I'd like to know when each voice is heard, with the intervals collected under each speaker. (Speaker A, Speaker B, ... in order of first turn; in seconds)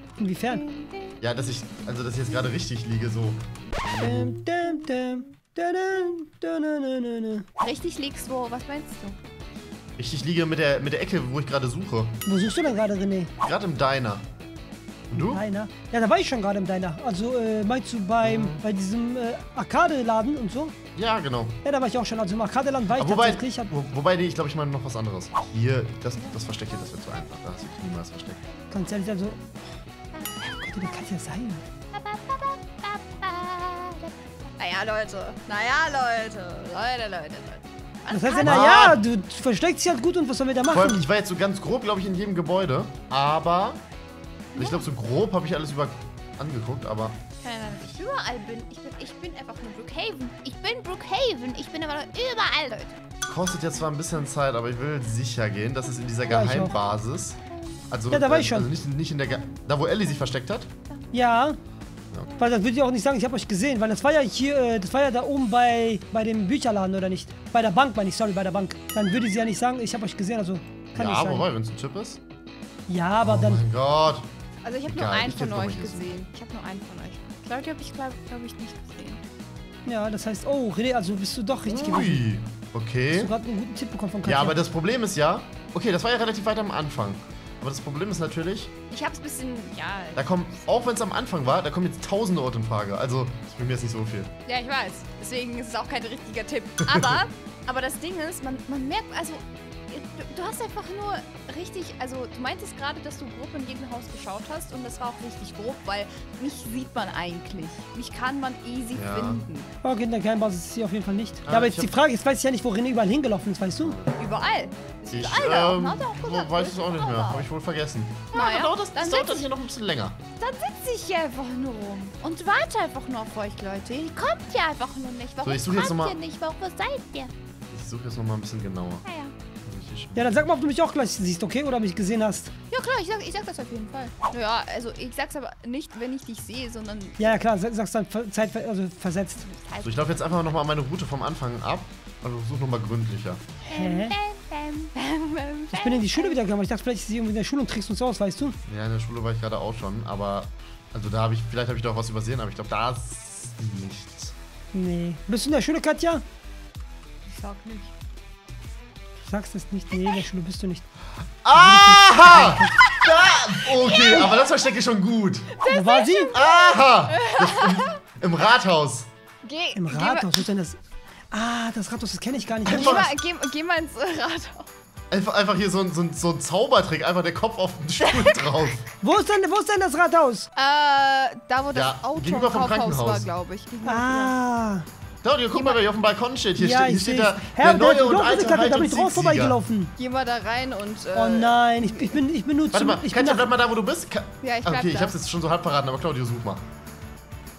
Speaker A: 0.2-0.6, 4.0-7.4, 12.2-13.3, 15.1-20.8, 21.6-23.7, 28.7-29.4, 30.5-31.6, 38.1-41.1, 56.3-56.7, 58.1-58.7, 61.1-61.6, 62.4-71.5, 72.9-73.6, 79.9-82.2, 83.1-84.6, 109.8-114.0, 130.2-132.5, 137.2-139.5, 143.7-144.2, 145.7-148.6, 154.7-156.2, 159.2-160.8, 161.5-162.8, 165.7-166.3, 169.8-170.8, 171.3-173.1, 179.0-180.5, 183.8-184.8, 186.6-189.9, 191.1-193.5
Speaker B: 0.5-1.2, 7.6-9.2, 31.9-38.6, 44.5-44.8, 47.4-53.0, 74.6-79.2, 88.9-90.7, 94.5-109.7, 114.2-117.5, 118.3-119.5, 120.4-127.3, 129.0-129.3, 132.7-137.4, 139.4-140.5, 143.7-146.4, 157.3-157.9, 163.0-164.4, 165.6-168.0, 169.4-170.5, 172.7-174.7, 178.0-178.5, 180.6-184.4, 185.5-185.8, 190.0-192.2, 194.4-195.2
Speaker C: 1.2-4.3, 10.0-12.2, 13.4-14.2, 15.1-15.4, 18.2-18.6, 20.9-21.6, 22.9-28.4, 38.4-39.0, 40.7-43.8, 44.6-47.2, 53.3-57.4, 57.9-60.7, 71.0-72.2, 73.2-74.3, 74.8-76.2, 81.7-83.3, 84.2-88.7, 90.2-94.3, 108.9-109.4, 111.5-111.9, 113.8-114.2, 115.1-120.2, 125.4-126.2, 127.7-129.1, 129.7-130.4, 139.8-143.4, 148.7-154.3, 161.4-165.5, 166.3-169.1, 172.7-173.1, 175.1-178.8, 181.7-183.3, 185.2-189.6, 192.7-196.6